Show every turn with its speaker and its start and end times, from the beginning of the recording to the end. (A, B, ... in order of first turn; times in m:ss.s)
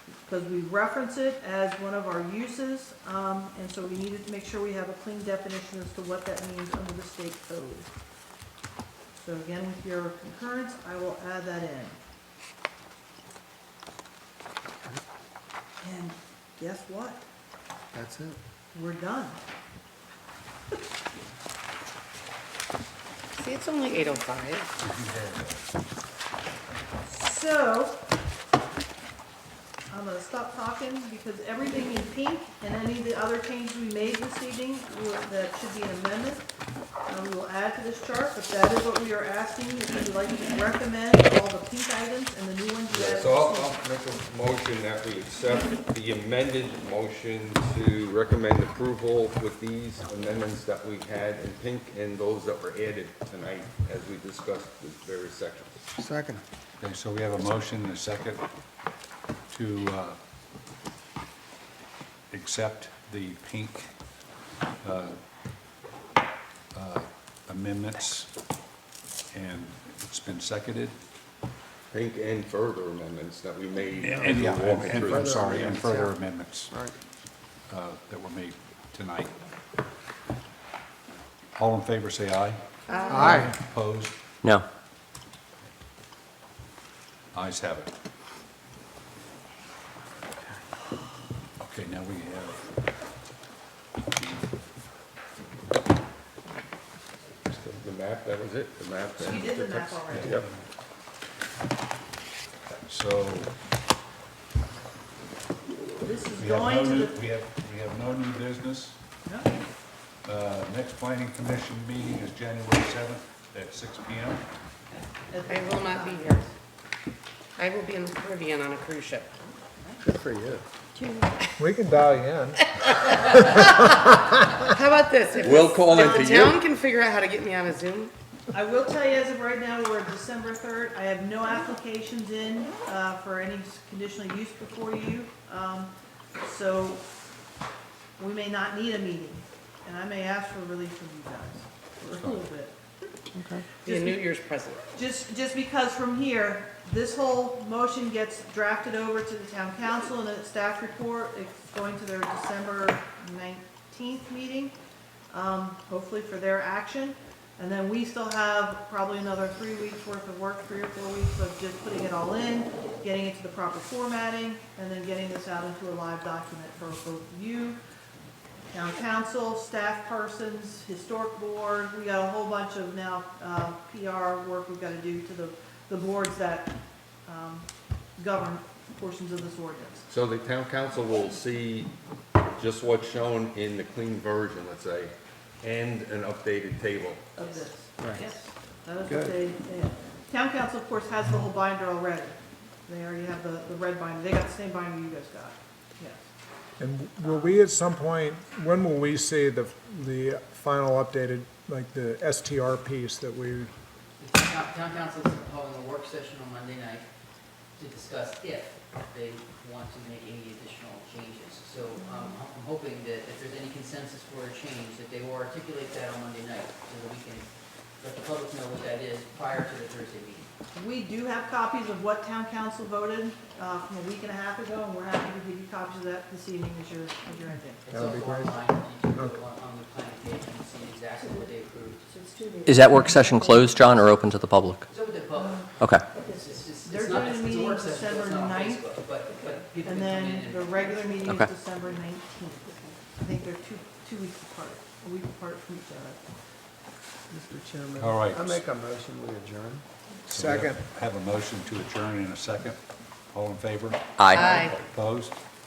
0:00.3-0:07.9 A
0:09.2-0:12.0 A
0:15.8-0:17.2 A
0:17.9-0:18.4 B
0:18.7-0:19.4 A
0:23.4-0:24.7 C
0:24.8-0:25.6 D
0:27.1-0:28.0 A
0:29.9-0:36.4 A
0:37.1-0:43.7 A
0:42.9-0:55.8 E
0:56.0-0:56.4 B
0:56.8-0:58.4 D
0:59.5-1:00.2 D
1:02.3-1:03.9 D
1:04.8-1:05.2 D
1:06.7-1:08.3 D
1:09.3-1:11.0 D
1:11.9-1:15.4 E
1:14.0-1:16.8 D
1:14.2-1:14.5 B
1:15.0-1:16.2 B
1:16.7-1:17.0 B
1:17.7-1:19.3 D
1:21.6-1:22.6 D
1:22.9-1:23.5 C
1:23.1-1:23.4 B
1:23.3-1:24.2 D
1:27.3-1:27.9 D
1:31.6-1:32.7 D
1:34.2-1:34.5 D
1:37.5-1:40.5 E
1:39.2-1:40.4 A
1:40.1-1:40.5 D
1:42.9-1:43.5 D
1:46.0-1:47.2 A
1:46.4-1:49.0 D
1:49.2-1:49.6 A
1:50.2-1:54.4 D
1:55.3-1:56.5 A
1:55.5-1:56.4 C
1:57.6-1:59.3 C
2:00.0-2:00.6 B
2:01.6-2:04.3 F
2:02.9-2:08.1 C
2:05.4-2:06.6 E
2:05.8-2:06.4 A
2:08.5-2:17.0 A
2:18.2-2:22.7 A
2:23.8-2:24.8 C
2:23.9-2:24.2 A
2:25.0-2:34.8 A
2:35.3-2:47.8 A
2:48.7-2:56.7 A
2:57.2-3:00.1 A
3:00.1-3:01.9 E
3:02.5-3:07.3 E
3:07.4-3:16.3 A
3:08.0-3:08.2 B
3:09.1-3:09.4 B
3:16.8-3:23.7 F
3:17.2-3:17.5 A
3:24.2-3:27.1 G
3:27.8-3:37.5 G
3:38.0-3:40.5 G
3:40.7-3:47.8 A
3:47.8-3:52.1 G
3:48.0-3:48.5 B
3:52.6-3:54.8 H
3:54.9-3:55.8 G
3:55.4-3:55.7 A
3:55.8-3:56.1 H
3:56.3-4:00.8 G
3:56.8-3:58.8 A
3:59.8-4:06.2 A
4:07.3-4:09.8 B
4:08.0-4:08.6 D
4:10.3-4:10.8 F
4:10.3-4:15.4 D
4:14.2-4:14.5 H
4:14.3-4:14.8 C